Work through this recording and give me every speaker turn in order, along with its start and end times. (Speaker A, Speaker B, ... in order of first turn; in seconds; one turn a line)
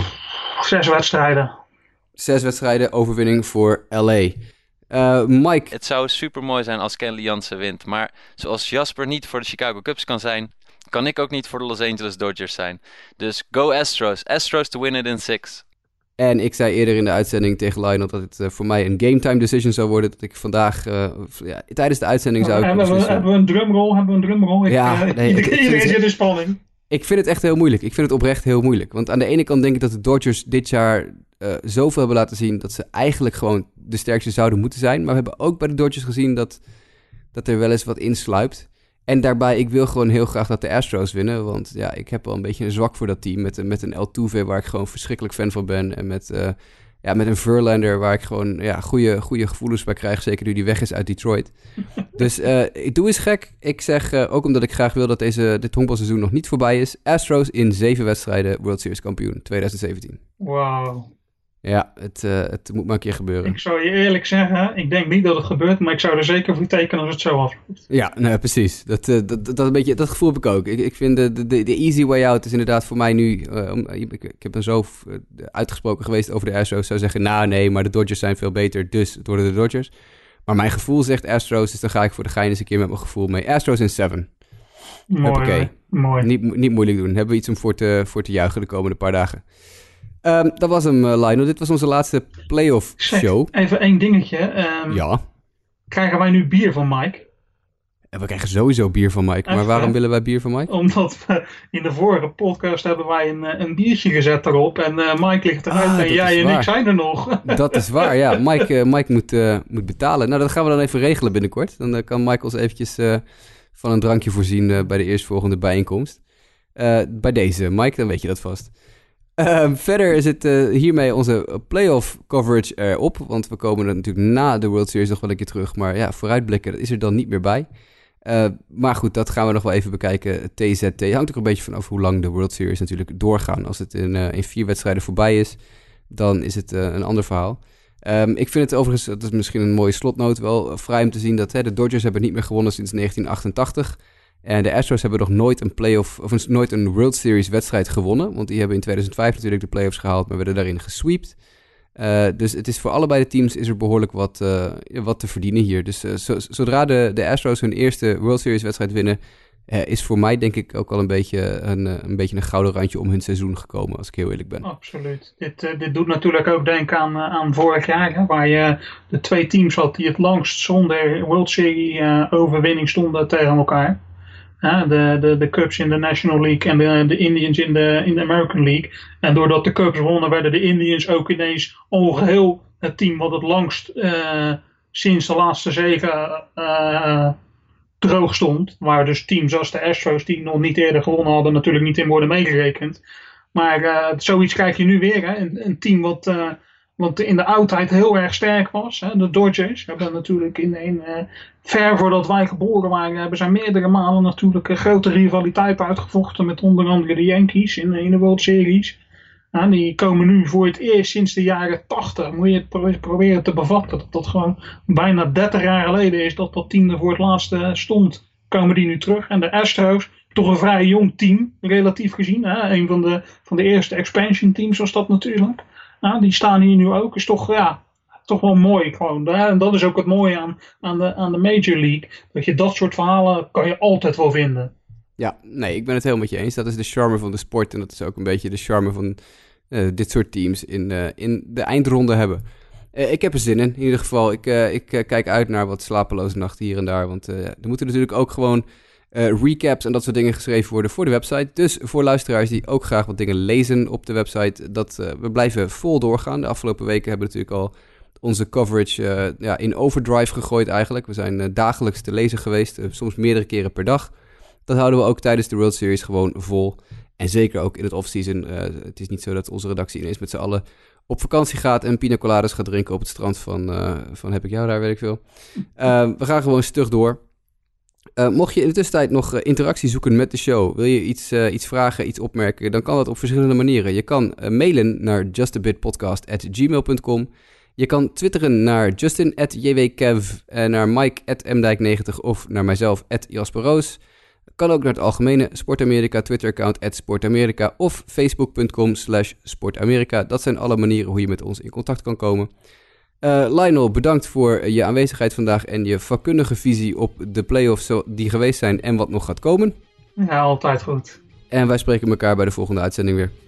Speaker A: 0.5-1.5
Speaker B: 2.2-4.4
Speaker B: 4.9-5.7
Speaker C: 5.7-15.6
Speaker B: 16.2-23.2
Speaker A: 22.4-26.6
Speaker B: 24.7-26.0
Speaker B: 26.9-36.6
Speaker B: 37.3-51.5
Speaker B: 52.1-60.2
Speaker A: 60.4-61.1
Speaker B: 61.6-63.6
Speaker A: 63.4-67.8
Speaker B: 67.9-79.9
Speaker B: 80.5-84.3
Speaker A: 85.1-86.3
Speaker B: 85.2-89.4
Speaker B: 90.2-93.5
Speaker A: 93.0-95.0
Speaker B: 94.9-95.2
Speaker A: 95.9-97.2
Speaker B: 98.1-100.8
Speaker A: 99.5-99.9
Speaker A: 100.7-108.3
Speaker B: 105.7-106.7
Speaker B: 107.4-113.2
Speaker B: 113.7-116.2
Speaker B: 116.7-118.7
Speaker B: 119.4-127.7
Speaker B: 128.2-135.6
Speaker B: 136.1-151.3
Speaker B: 151.9-164.6
Speaker A: 164.6-173.9
Speaker A: 174.6-187.3
Speaker A: 188.0-193.0
Speaker A: 193.5-209.0
Speaker A: 209.5-234.7
Speaker B: 235.2-239.2
Speaker B: 239.7-242.4
Speaker B: 242.9-264.1
Speaker B: 264.7-275.2
Speaker B: 275.7-277.2
Speaker B: 278.2-294.0
Speaker B: 294.6-302.5
Speaker B: 303.2-309.8
Speaker A: 310.2-311.2
Speaker B: 311.5-313.3